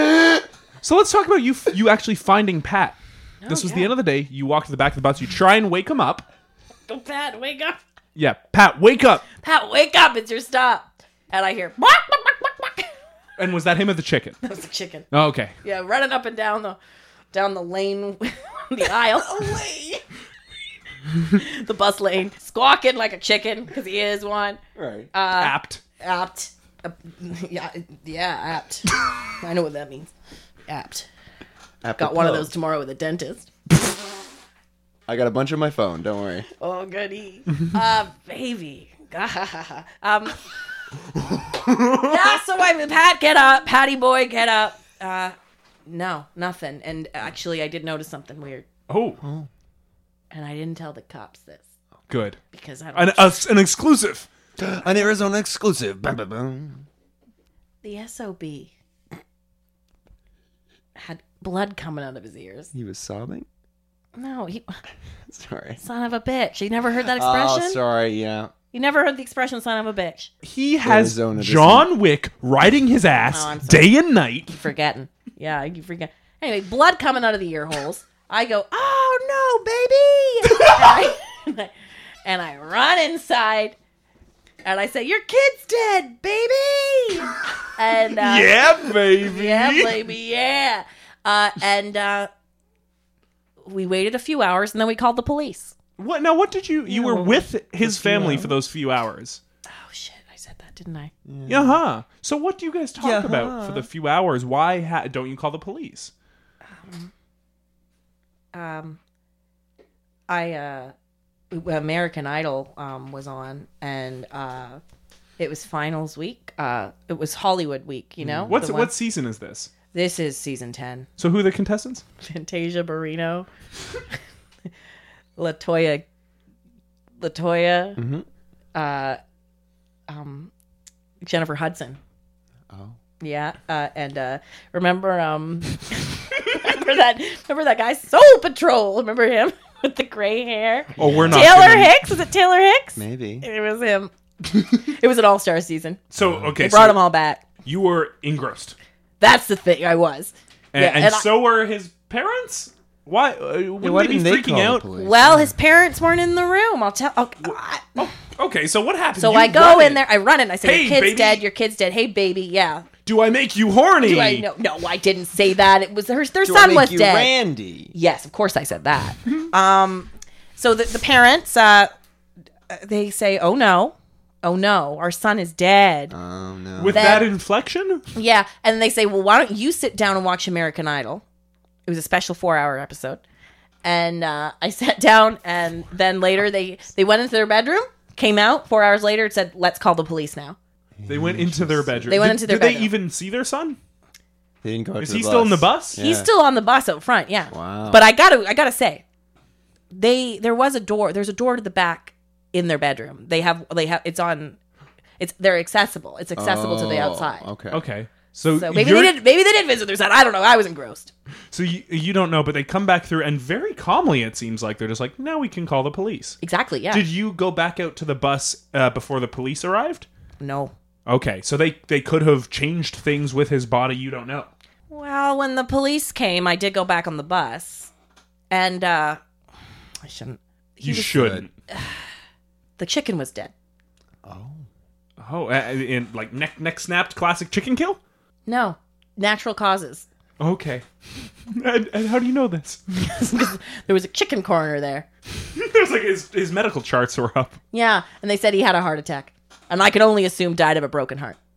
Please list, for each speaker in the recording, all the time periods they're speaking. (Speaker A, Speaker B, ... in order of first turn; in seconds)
Speaker A: 0.8-6.3, 8.2-9.2, 13.4-14.4, 15.1-15.5, 25.3-25.8, 41.6-42.1, 48.9-49.2, 52.1-52.4, 53.0-54.3, 70.4-74.5, 88.1-90.0, 96.0-99.4, 101.5-106.1, 118.5-119.7, 121.2-122.0, 141.0-142.0, 146.1-147.0, 147.7-148.8, 150.7-154.8, 158.0-160.0, 160.6-161.4, 163.1-164.5, 176.8-178.1, 191.1-193.8, 195.0-196.0, 207.7-209.2, 211.5-216.4, 216.9-220.1, 221.1-224.5, 230.8-231.5, 235.2-238.0, 240.4-242.8, 245.5-247.6
Speaker B: 3.4-3.9, 6.9-7.8, 9.4-12.9, 14.4-15.1, 15.6-16.8, 17.3-19.5, 21.3-24.6, 25.1-30.1, 30.7-31.1, 32.0-33.5, 36.6-40.4, 42.0-45.4, 45.9-48.7, 50.3-51.6, 52.5-53.4, 57.8-58.7, 61.0-62.7, 64.2-64.8, 65.8-67.8, 68.7-70.3, 73.3-73.9, 74.5-81.7, 82.2-83.8, 84.6-88.7, 89.2-92.3, 93.7-95.8, 99.7-101.1, 106.7-107.1, 108.5-109.0, 110.3-110.9, 111.5-114.8, 115.4-118.9, 119.9-121.1, 122.2-123.5, 125.4-126.0, 127.2-128.0, 128.8-129.2, 130.1-130.5, 131.2-132.0, 133.2-146.0, 146.6-147.4, 149.2-151.3, 155.0-158.0, 159.2-162.9, 164.0-167.3, 167.9-171.9, 172.7-176.1, 176.9-177.3, 178.2-181.2, 181.9-183.2, 183.8-190.6, 192.1-192.9, 196.0-199.0, 199.9-204.6, 205.2-207.5, 208.5-211.1, 216.4-217.1, 220.4-220.7, 224.9-227.9, 228.5-229.2, 230.0-232.0, 232.8-233.5, 238.5-240.1, 243.0-245.1, 247.7-251.4
Speaker C: 19.2-20.0, 24.8-25.1, 31.8-32.5, 35.1-36.5, 49.2-49.5, 54.6-56.9, 62.7-63.5, 65.3-65.8, 67.0-68.5, 70.8-71.9, 96.9-98.6, 101.3-101.8, 103.0-103.9, 118.2-118.6, 128.0-128.3, 132.7-133.0, 141.0-141.6, 143.0-143.5, 146.2-146.5, 153.8-155.5, 166.4-167.9, 176.1-177.3, 191.0-192.3, 194.6-196.3, 197.5-198.1, 206.4-207.8, 231.1-231.5, 234.2-234.6